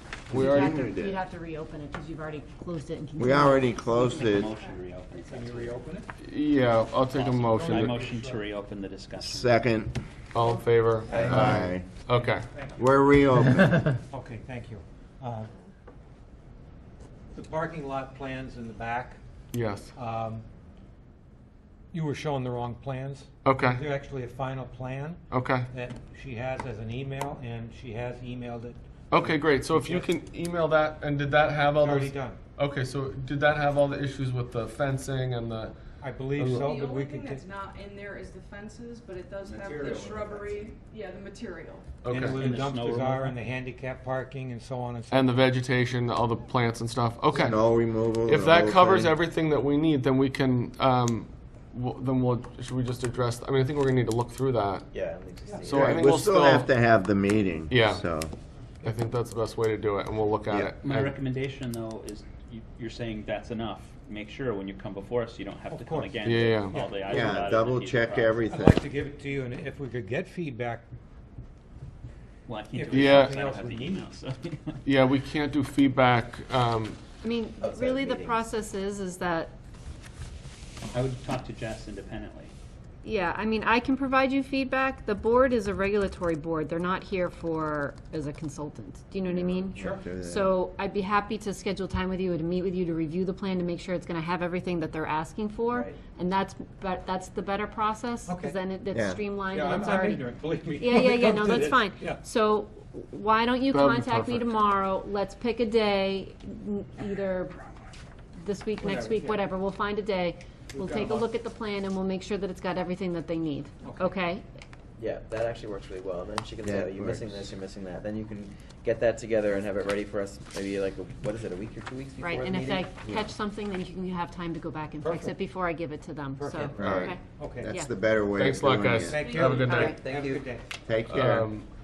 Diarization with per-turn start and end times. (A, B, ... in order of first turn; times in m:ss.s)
0:00.3-0:01.2 A
0:00.3-0:00.7 B
0:00.3-0:03.9 C
0:03.2-0:04.5 A
0:03.9-0:05.8 D
0:05.1-0:06.1 E
0:06.2-0:08.0 B
0:07.1-0:09.6 D
0:07.6-0:08.5 E
0:09.2-0:10.0 A
0:10.3-0:12.5 B
0:11.1-0:11.9 A
0:11.2-0:11.4 F
0:12.5-0:12.8 E
0:12.8-0:14.0 A
0:14.1-0:15.5 E
0:17.3-0:19.2 E
0:19.5-0:19.9 B
0:20.0-0:20.4 E
0:21.9-0:30.1 E
0:23.4-0:23.8 B
0:25.3-0:25.7 B
0:29.1-0:35.8 B
0:31.7-0:32.4 E
0:36.0-0:37.5 E
0:36.4-0:36.8 B
0:36.6-0:42.0 G
0:39.4-0:40.6 D
0:39.7-0:40.0 E
0:42.0-0:42.4 B
0:42.1-0:45.4 E
0:42.4-0:43.4 D
0:45.1-0:47.6 B
0:47.3-0:49.2 A
0:48.2-0:54.9 B
0:54.9-0:56.0 F
0:55.6-0:56.7 B
0:55.7-0:58.3 A
0:57.7-0:58.0 B
0:58.8-1:01.2 B
1:00.5-1:00.8 A
1:00.8-1:08.5 D
1:05.7-1:07.3 E
1:06.2-1:06.8 B
1:07.0-1:08.8 A
1:08.5-1:10.8 E
1:12.5-1:14.8 D
1:12.7-1:14.1 E
1:12.9-1:13.3 B
1:14.8-1:17.0 B
1:17.2-1:19.6 C
1:17.6-1:18.4 F
1:20.9-1:22.5 D
1:23.0-1:47.6 C
1:29.2-1:30.6 A
1:29.8-1:30.0 E
1:35.7-1:36.0 F
1:38.3-1:38.6 E
1:38.9-1:39.2 A
1:39.5-1:42.2 E
1:43.7-1:44.5 B
1:48.4-1:54.5 C
1:48.8-1:49.4 E
1:50.7-1:51.3 E
1:53.8-1:54.1 E
1:55.0-2:03.2 F
1:56.6-1:57.5 A
2:02.2-2:07.9 C
2:05.0-2:05.3 E
2:06.4-2:06.8 E
2:06.8-2:07.1 B
2:06.8-2:09.4 A
2:07.4-2:07.8 E
2:08.4-2:10.0 B
2:09.1-2:10.7 E
2:09.2-2:09.6 G
2:09.6-2:10.0 C
2:09.6-2:10.5 F
2:10.9-2:11.5 A
2:11.1-2:11.7 B